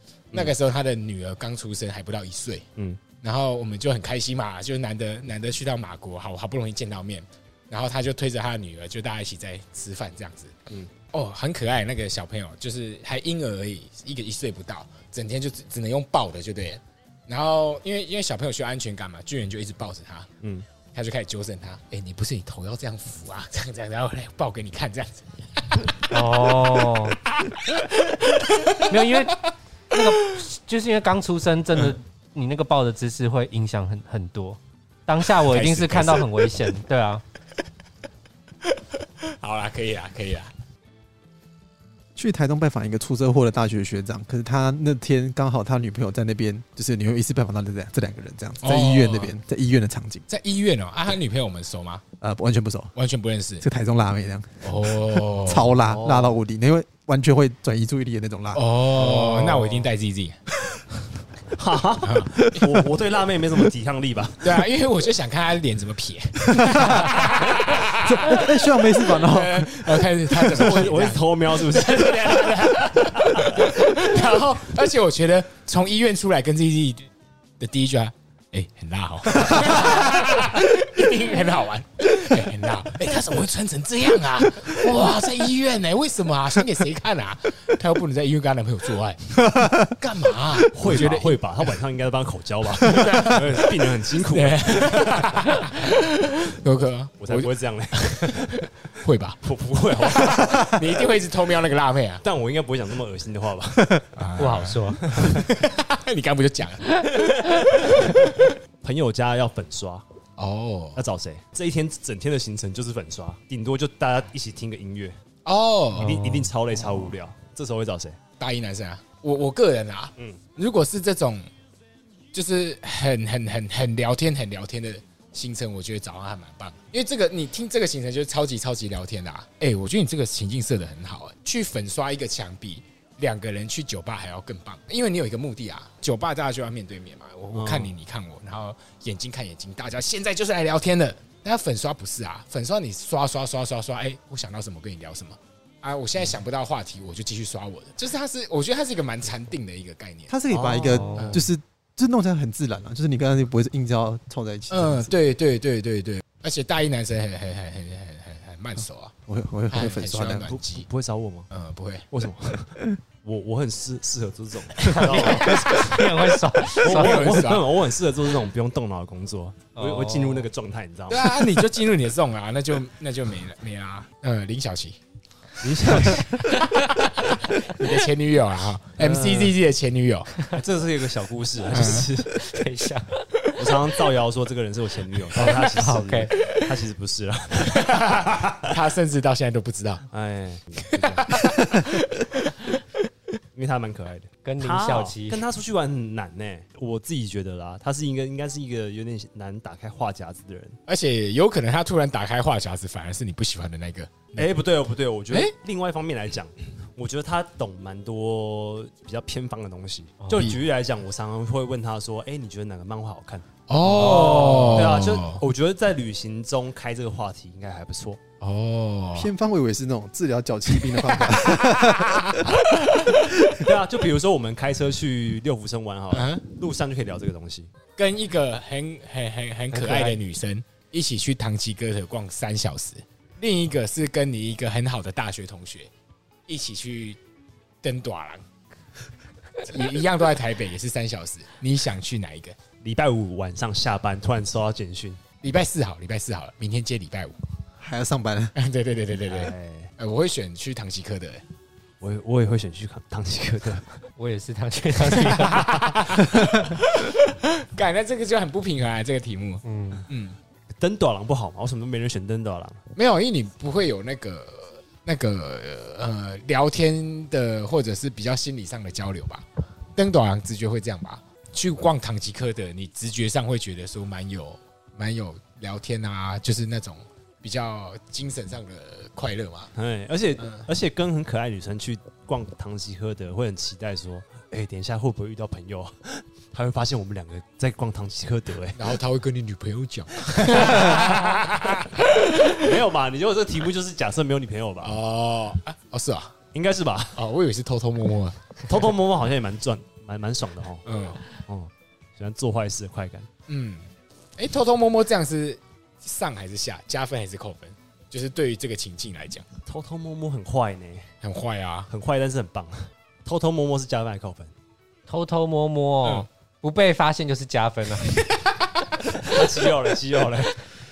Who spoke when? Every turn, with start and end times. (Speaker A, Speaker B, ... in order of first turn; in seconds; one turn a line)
Speaker A: 0.3-2.6
Speaker A: 3.1-20.3
Speaker A: 20.9-26.2
Speaker B: 26.1-27.2
Speaker A: 27.3-29.4
Speaker B: 28.9-29.4
Speaker B: 29.9-37.2
Speaker A: 35.4-36.3
Speaker A: 38.7-40.5
Speaker C: 42.1-50.2
Speaker A: 48.6-49.3
Speaker A: 50.3-52.0
Speaker C: 52.2-52.9
Speaker A: 53.0-53.6
Speaker C: 53.6-58.8
Speaker A: 54.6-55.7
Speaker D: 55.8-56.4
Speaker A: 58.5-60.4
Speaker D: 59.0-59.9
Speaker D: 61.5-64.7
Speaker A: 62.0-62.7
Speaker A: 64.4-91.4
Speaker C: 66.5-70.2
Speaker D: 70.4-73.7
Speaker C: 89.4-89.9
Speaker D: 90.7-95.6
Speaker A: 92.8-99.4
Speaker D: 97.2-98.7
Speaker D: 99.4-101.0
Speaker A: 100.0-102.2
Speaker D: 102.2-104.1
Speaker A: 104.2-108.3
Speaker B: 104.4-105.0
Speaker D: 105.0-105.4
Speaker D: 108.8-110.0
Speaker A: 110.4-111.0
Speaker D: 111.0-115.1
Speaker A: 115.4-116.2
Speaker D: 116.0-118.2
Speaker B: 116.0-116.5
Speaker A: 118.4-121.5
Speaker A: 122.3-150.3
Speaker D: 137.5-137.9
Speaker C: 150.3-155.1
Speaker D: 150.5-151.5
Speaker B: 150.9-151.3
Speaker A: 151.2-151.4
Speaker A: 154.7-159.1
Speaker C: 159.3-160.6
Speaker A: 159.7-160.8
Speaker D: 160.4-161.5
Speaker A: 161.5-162.1
Speaker D: 162.1-166.0
Speaker B: 164.8-167.5
Speaker A: 164.9-167.7
Speaker D: 166.7-171.6
Speaker B: 169.8-170.5
Speaker A: 171.1-175.0
Speaker D: 175.6-176.3
Speaker A: 175.9-180.4
Speaker D: 179.0-179.5
Speaker D: 180.5-182.4
Speaker A: 181.7-182.1
Speaker B: 182.3-183.2
Speaker D: 183.6-188.7
Speaker B: 185.4-186.3
Speaker A: 187.7-190.0
Speaker D: 190.1-191.5
Speaker A: 190.9-192.8
Speaker D: 193.6-200.8
Speaker B: 194.4-195.4
Speaker A: 200.9-204.5
Speaker D: 204.3-218.2
Speaker A: 210.3-210.6
Speaker A: 213.7-215.4
Speaker B: 213.8-214.9
Speaker A: 218.4-219.3
Speaker C: 219.1-222.5
Speaker A: 221.1-223.3
Speaker D: 223.4-227.7
Speaker A: 226.1-226.4
Speaker A: 227.9-235.9
Speaker B: 229.7-230.2
Speaker A: 236.5-237.2
Speaker A: 237.8-238.4
Speaker A: 239.6-242.6
Speaker D: 242.8-245.2
Speaker A: 245.4-247.3
Speaker C: 247.8-248.5
Speaker A: 248.6-251.4
Speaker D: 249.2-249.9
Speaker D: 252.0-254.0
Speaker B: 254.2-255.7
Speaker A: 255.1-260.4
Speaker B: 259.6-260.0
Speaker D: 260.8-262.8
Speaker A: 262.9-279.7
Speaker D: 279.7-289.0
Speaker A: 280.4-280.6
Speaker A: 288.8-292.8
Speaker D: 290.3-291.4
Speaker D: 292.5-295.0
Speaker A: 294.8-296.3
Speaker D: 296.5-297.2
Speaker A: 297.1-298.9
Speaker D: 298.7-303.3
Speaker A: 300.9-301.2
Speaker A: 303.5-309.4
Speaker D: 309.7-311.1
Speaker A: 311.2-311.9
Speaker D: 311.9-314.5
Speaker B: 315.1-318.2
Speaker A: 318.1-319.3
Speaker D: 319.1-320.6